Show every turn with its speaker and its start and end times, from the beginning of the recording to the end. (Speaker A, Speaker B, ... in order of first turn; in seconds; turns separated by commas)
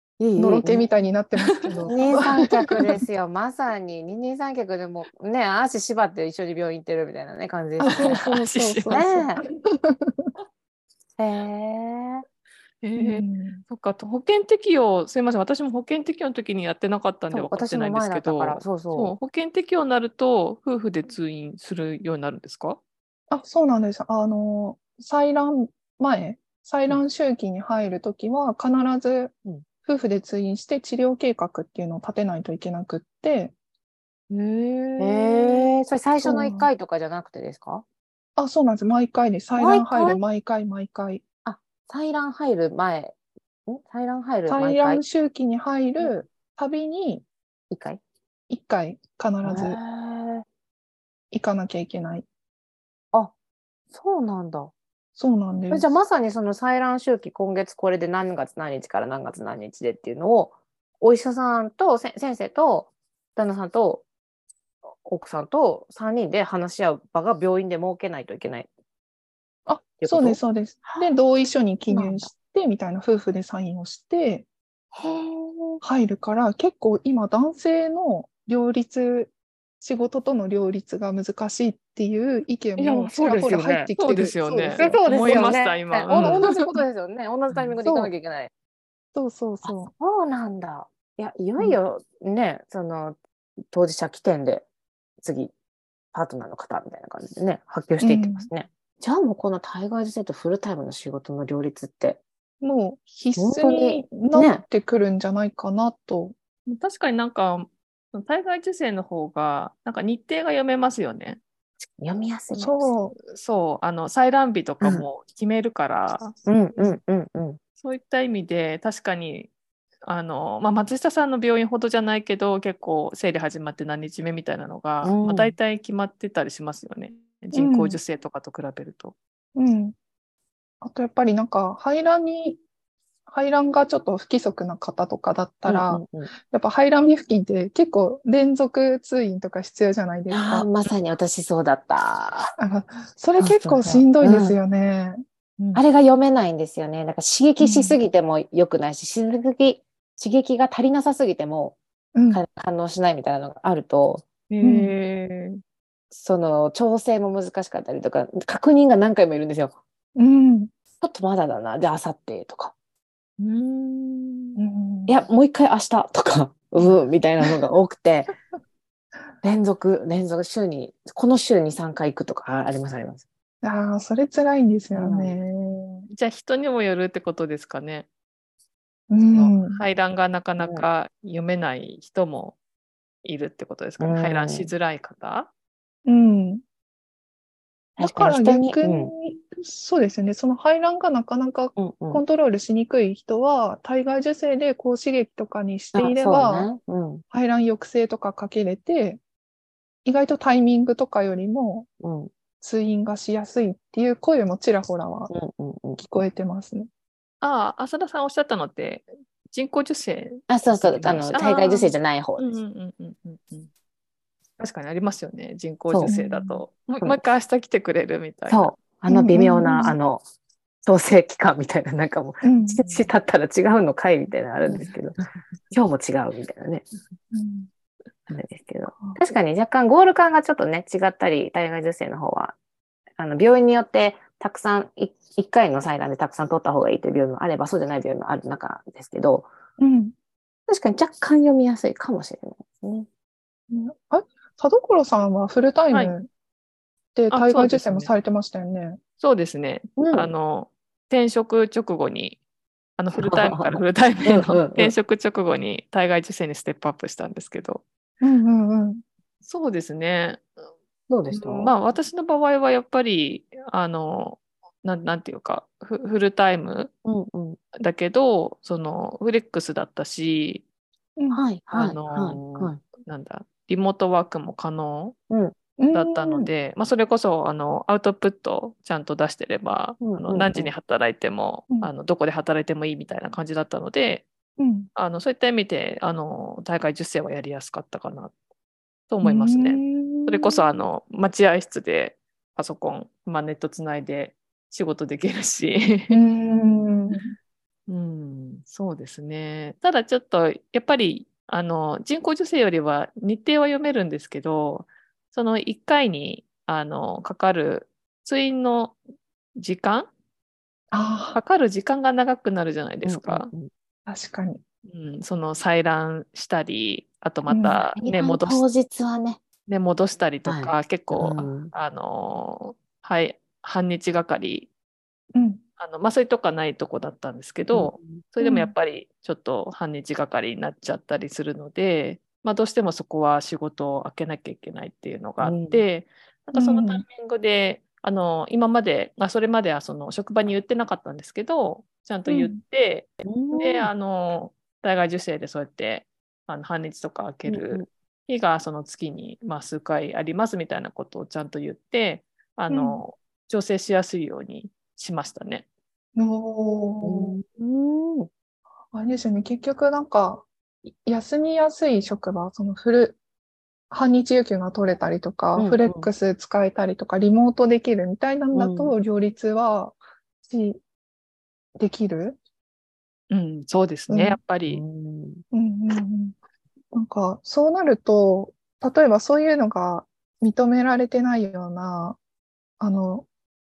Speaker A: 0.2-0.9, Speaker B: 0.4-3.0, Speaker C: 1.4-1.9, Speaker A: 1.9-8.2, Speaker B: 7.8-10.3, Speaker C: 8.0-9.0, Speaker A: 8.9-9.4, Speaker A: 11.2-12.2, Speaker C: 12.8-22.8, Speaker B: 13.0-13.6, Speaker A: 17.3-19.1, Speaker B: 23.3-33.5, Speaker C: 34.3-35.7, Speaker A: 35.0-37.9, Speaker B: 36.2-36.7, Speaker B: 38.4-41.2, Speaker A: 39.6-40.2, Speaker A: 41.5-45.0, Speaker B: 44.5-47.2, Speaker A: 47.7-48.0, Speaker B: 48.5-49.8, Speaker A: 49.4-50.5, Speaker B: 51.3-52.2, Speaker A: 53.9-54.7, Speaker B: 55.2-55.8, Speaker A: 55.7-64.0, Speaker A: 65.0-68.7, Speaker B: 69.7-74.5, Speaker A: 70.0-71.1, Speaker A: 71.9-72.3, Speaker A: 74.9-75.8, Speaker B: 75.8-85.5, Speaker A: 82.8-83.9, Speaker C: 84.0-86.4, Speaker A: 84.8-88.5, Speaker B: 86.1-86.8, Speaker B: 87.8-88.1, Speaker B: 89.2-89.9, Speaker A: 89.6-93.2, Speaker A: 93.7-94.7, Speaker A: 95.2-95.5, Speaker A: 96.1-102.2, Speaker B: 98.0-98.5, Speaker B: 102.6-106.3, Speaker A: 103.4-104.6, Speaker C: 106.7-111.4, Speaker A: 111.9-112.9, Speaker B: 112.6-113.2, Speaker C: 113.2-116.3, Speaker A: 114.8-115.1, Speaker A: 116.5-117.6, Speaker C: 117.8-119.5, Speaker C: 120.0-129.1, Speaker A: 125.0-125.5, Speaker B: 127.5-128.0, Speaker B: 129.6-129.9, Speaker B: 130.8-132.6, Speaker B: 133.3-140.7, Speaker A: 135.7-136.3, Speaker A: 140.3-142.5, Speaker B: 142.6-145.8, Speaker A: 143.4-144.6, Speaker A: 145.8-151.8, Speaker B: 147.6-148.0, Speaker B: 152.2-152.4, Speaker A: 152.3-154.2, Speaker C: 154.5-155.6, Speaker B: 154.6-154.9, Speaker A: 156.1-159.8, Speaker B: 160.2-160.7, Speaker A: 161.0-162.7, Speaker C: 163.4-164.6, Speaker B: 164.6-165.2, Speaker A: 165.1-168.3, Speaker A: 169.4-173.2, Speaker B: 173.6-176.1, Speaker A: 174.9-175.4, Speaker C: 176.1-178.1, Speaker B: 179.1-179.8, Speaker C: 179.3-182.6, Speaker C: 183.2-185.5, Speaker A: 184.0-184.7, Speaker B: 186.1-186.6, Speaker A: 188.0-189.1, Speaker B: 188.0-196.7, Speaker A: 191.8-192.2, Speaker A: 195.9-197.2, Speaker B: 197.3-199.2, Speaker B: 200.1-201.9, Speaker A: 202.0-202.3, Speaker B: 202.6-205.3, Speaker A: 205.3-206.0, Speaker B: 206.0-206.9, Speaker C: 207.4-213.7, Speaker A: 210.5-212.5, Speaker C: 214.6-218.7, Speaker A: 215.9-216.1, Speaker B: 216.1-216.6, Speaker A: 218.5-220.2, Speaker B: 219.1-220.0, Speaker A: 220.8-225.2, Speaker B: 222.4-223.0, Speaker A: 225.7-226.9, Speaker B: 227.3-227.7, Speaker A: 228.3-232.6, Speaker A: 233.2-239.5, Speaker B: 239.8-240.1, Speaker A: 240.7-243.1, Speaker B: 243.7-246.3, Speaker C: 245.9-246.2, Speaker B: 247.2-249.0, Speaker C: 247.3-248.1, Speaker C: 249.2-252.4, Speaker A: 250.0-250.3, Speaker C: 253.0-257.8, Speaker A: 253.2-254.9, Speaker B: 258.2-259.0, Speaker C: 259.4-260.5, Speaker A: 261.1-261.7, Speaker C: 261.3-266.9, Speaker A: 267.1-267.6, Speaker C: 267.8-270.6, Speaker A: 271.3-272.8, Speaker C: 271.7-275.2, Speaker A: 275.3-275.6, Speaker B: 275.8-276.5, Speaker C: 275.9-284.3, Speaker A: 280.0-280.7, Speaker B: 284.6-284.9, Speaker C: 285.0-288.3, Speaker C: 289.1-296.2, Speaker B: 289.2-290.6, Speaker B: 296.1-297.3, Speaker C: 297.9-309.0, Speaker C: 309.6-310.1, Speaker B: 310.9-311.4, Speaker C: 311.3-313.5, Speaker A: 313.0-313.7, Speaker B: 314.1-314.6, Speaker C: 314.9-318.7, Speaker B: 317.5-317.8, Speaker A: 318.0-319.4, Speaker C: 319.7-324.7, Speaker A: 320.5-321.7, Speaker B: 325.4-325.6, Speaker C: 325.8-355.7, Speaker A: 327.7-328.2, Speaker B: 328.4-328.7, Speaker A: 335.4-335.8, Speaker B: 336.6-337.0, Speaker B: 342.3-342.6, Speaker A: 343.2-343.9, Speaker A: 347.5-347.9, Speaker B: 352.7-353.0, Speaker B: 356.2-357.4, Speaker A: 357.0-358.3, Speaker B: 358.9-360.5, Speaker B: 361.0-363.2, Speaker B: 363.9-370.8, Speaker A: 365.6-366.1, Speaker A: 368.5-368.9, Speaker B: 371.8-372.4, Speaker C: 373.3-374.8, Speaker B: 374.1-374.4, Speaker A: 374.7-375.4, Speaker B: 375.5-376.4, Speaker B: 376.9-382.2, Speaker B: 382.8-383.3